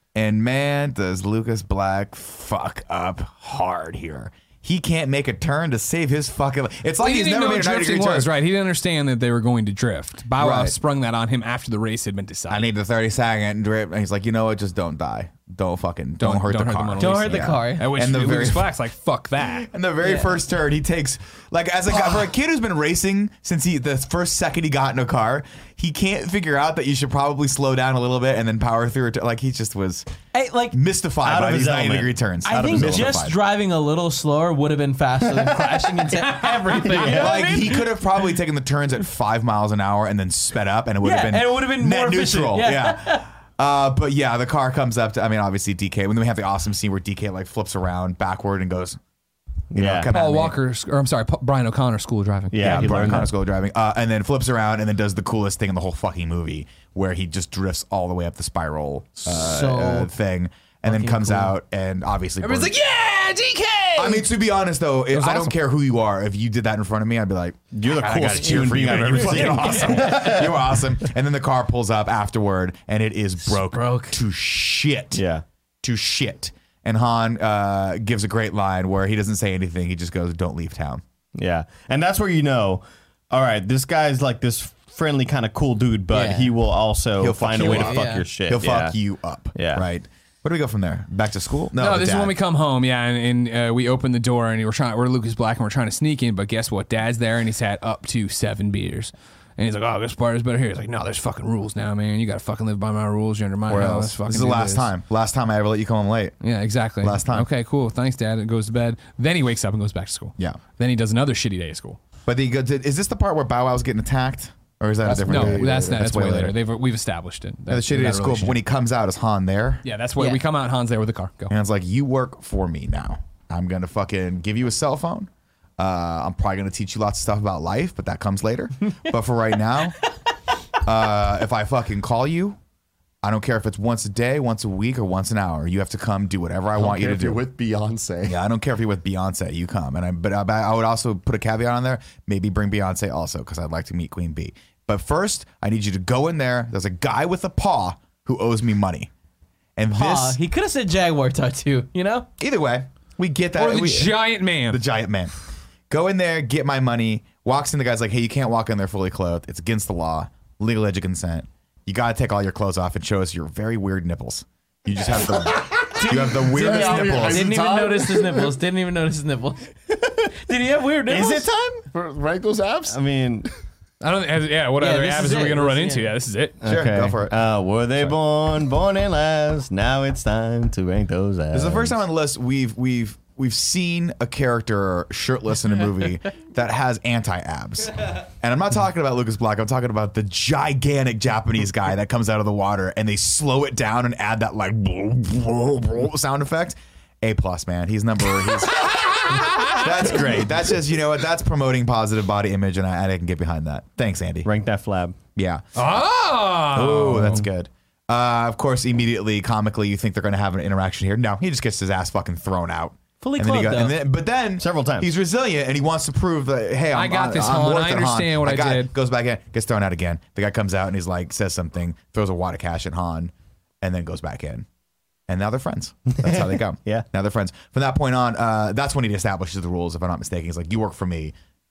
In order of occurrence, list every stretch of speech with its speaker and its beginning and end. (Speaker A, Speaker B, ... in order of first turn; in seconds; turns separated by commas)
Speaker A: 0.1-8.3, Speaker B: 7.0-12.7, Speaker A: 10.4-10.8, Speaker A: 12.5-18.7, Speaker B: 16.2-19.7, Speaker C: 17.0-17.9, Speaker A: 19.4-30.1, Speaker C: 20.0-20.4, Speaker C: 30.3-30.8, Speaker A: 30.7-33.4, Speaker D: 31.2-33.2, Speaker C: 32.4-37.9, Speaker D: 35.2-37.6, Speaker A: 37.0-49.0, Speaker C: 41.0-43.2, Speaker D: 49.7-50.1, Speaker A: 49.8-50.6, Speaker B: 50.1-53.3, Speaker D: 52.5-53.3, Speaker A: 52.6-62.7, Speaker C: 59.3-60.1, Speaker C: 60.9-61.5, Speaker B: 62.4-64.3, Speaker A: 64.0-75.2, Speaker B: 65.1-65.5, Speaker D: 67.7-70.6, Speaker B: 69.1-70.1, Speaker C: 73.4-74.2, Speaker D: 75.1-75.4, Speaker A: 75.8-81.0, Speaker D: 81.3-89.0, Speaker C: 86.1-86.5, Speaker A: 87.2-92.3, Speaker C: 87.5-88.2, Speaker D: 89.5-89.8, Speaker B: 91.8-104.9, Speaker A: 103.7-106.3, Speaker B: 106.4-112.0, Speaker A: 107.0-107.5, Speaker A: 112.2-116.5, Speaker E: 115.0-116.1, Speaker B: 115.3-118.6, Speaker A: 117.7-119.8, Speaker B: 119.8-121.5, Speaker A: 121.5-130.1, Speaker A: 130.8-132.6, Speaker A: 133.2-137.4, Speaker E: 136.7-138.4, Speaker A: 138.2-149.1, Speaker A: 149.8-150.4, Speaker C: 149.9-152.3, Speaker A: 152.4-155.3, Speaker B: 153.5-154.8, Speaker A: 155.9-167.5, Speaker E: 165.4-168.5, Speaker C: 165.9-169.7, Speaker C: 170.3-171.5, Speaker D: 171.1-171.9, Speaker E: 171.9-173.0, Speaker D: 172.9-173.5, Speaker B: 174.0-176.6, Speaker C: 174.8-176.1, Speaker D: 176.6-182.0, Speaker A: 176.7-177.4, Speaker A: 181.5-204.5, Speaker B: 199.3-199.8, Speaker D: 204.4-205.2, Speaker A: 205.3-205.6, Speaker B: 205.7-207.5, Speaker A: 206.7-224.7, Speaker C: 213.2-214.0, Speaker D: 214.6-215.1, Speaker B: 216.9-218.9, Speaker A: 225.3-231.3, Speaker D: 226.1-227.1